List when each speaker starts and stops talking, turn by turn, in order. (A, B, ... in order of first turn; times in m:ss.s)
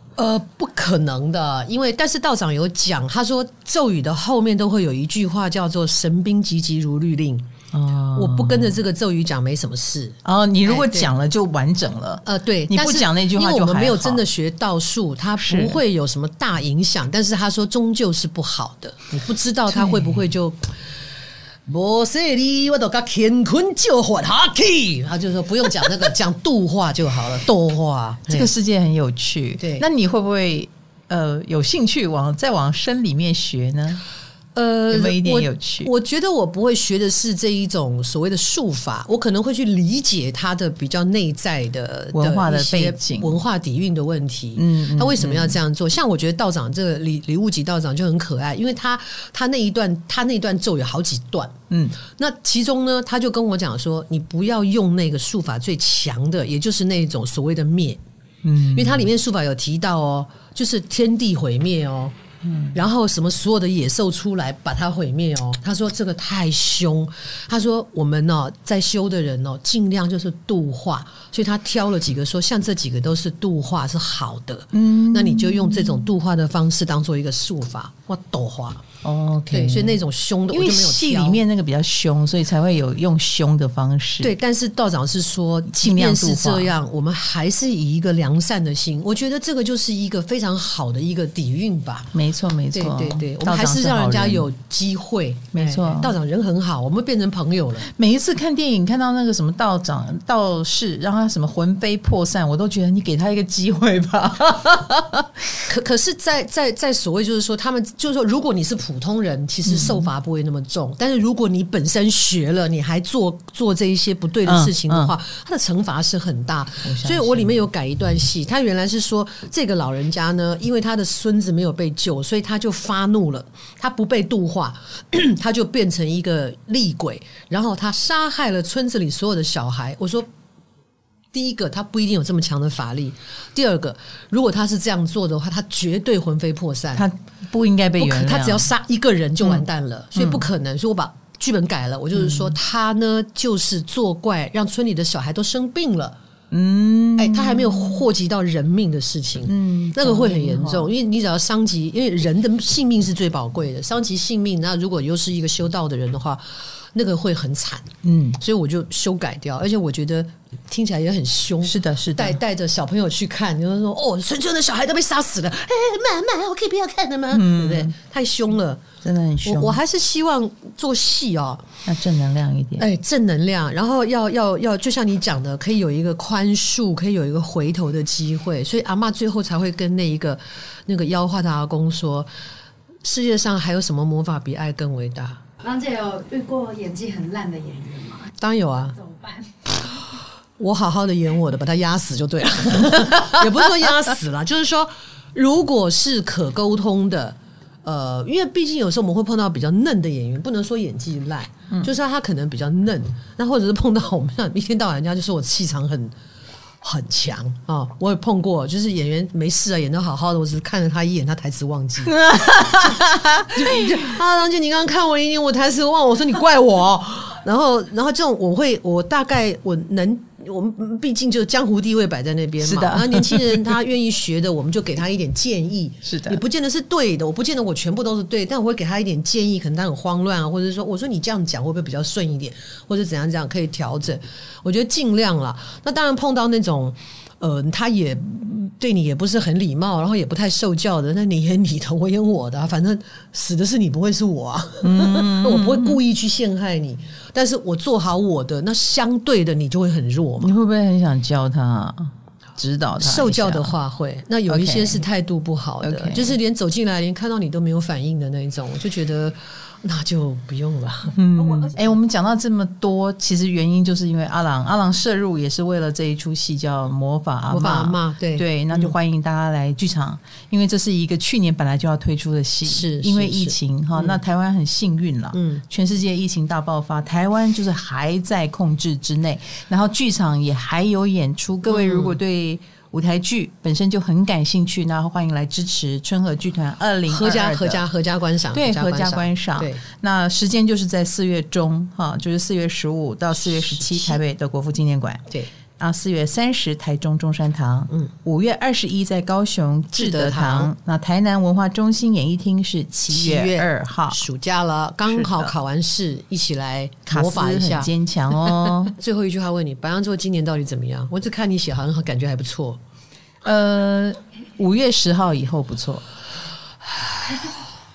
0:00.2-0:07.5 A
0:07.7-0:08.7 B
0:08.2-0:11.1 A
0:10.2-0:14.2 B
0:12.2-0:20.9 A
0:15.4-0:15.8 B
0:19.7-0:20.2 B
0:21.7-0:28.5 A
0:28.3-0:34.0 B
0:29.6-0:29.9 A
0:34.6-0:58.0 A
0:34.9-0:35.9 B
0:42.1-0:43.4 B
0:44.6-0:45.6 B
0:51.7-0:52.0 B
0:58.4-0:59.0 B
0:58.7-1:02.2 A
1:02.4-1:02.8 B
1:02.7-1:18.8 A
1:14.7-1:16.0 B
1:19.0-1:24.3 B
1:19.5-1:21.4 A
1:24.2-1:32.1 A
1:25.7-1:26.7 B
1:32.1-1:34.5 B
1:32.7-1:37.9 A
1:35.5-1:36.1 B
1:37.8-1:45.3 B
1:45.7-2:10.3 A
1:49.7-1:50.1 B
1:54.4-1:55.1 B
1:56.8-1:57.6 B
2:11.3-2:17.1 A
2:17.0-2:18.7 B
2:18.0-2:26.2 A
2:20.2-2:20.5 B
2:22.2-2:22.6 B
2:26.5-2:28.0 B
2:27.2-2:48.8 A
2:29.5-2:30.9 B
2:38.0-2:38.4 B
2:41.6-2:42.4 B
2:47.3-2:48.0 B
2:49.0-2:49.8 B
2:49.4-2:51.7 A
2:51.9-2:52.8 B
2:52.8-3:02.3 A
3:03.0-3:05.4 A
3:05.6-3:08.3 C
3:08.4-3:09.0 A
3:09.0-3:09.5 C
3:09.8-3:26.1 A
3:26.8-3:32.2 A
3:32.1-3:34.1 B
3:33.5-4:10.5 A
3:42.6-3:43.7 B
3:46.0-3:46.4 B
4:04.8-4:06.0 B
4:10.4-4:13.7 B
4:13.0-4:21.7 A
4:14.5-4:15.0 B
4:15.8-4:16.4 B
4:21.1-4:47.8 B
4:27.5-4:29.0 A
4:32.7-4:34.2 A
4:35.3-4:35.6 A
4:41.7-4:42.2 A
4:47.1-4:49.8 A
4:48.5-4:55.2 B
4:53.4-4:54.2 A
4:55.8-5:04.2 B
5:00.0-5:00.7 A
5:03.0-5:07.9 A
5:05.1-5:05.5 B
5:07.1-5:08.9 B
5:08.4-5:12.8 A
5:13.4-5:16.0 B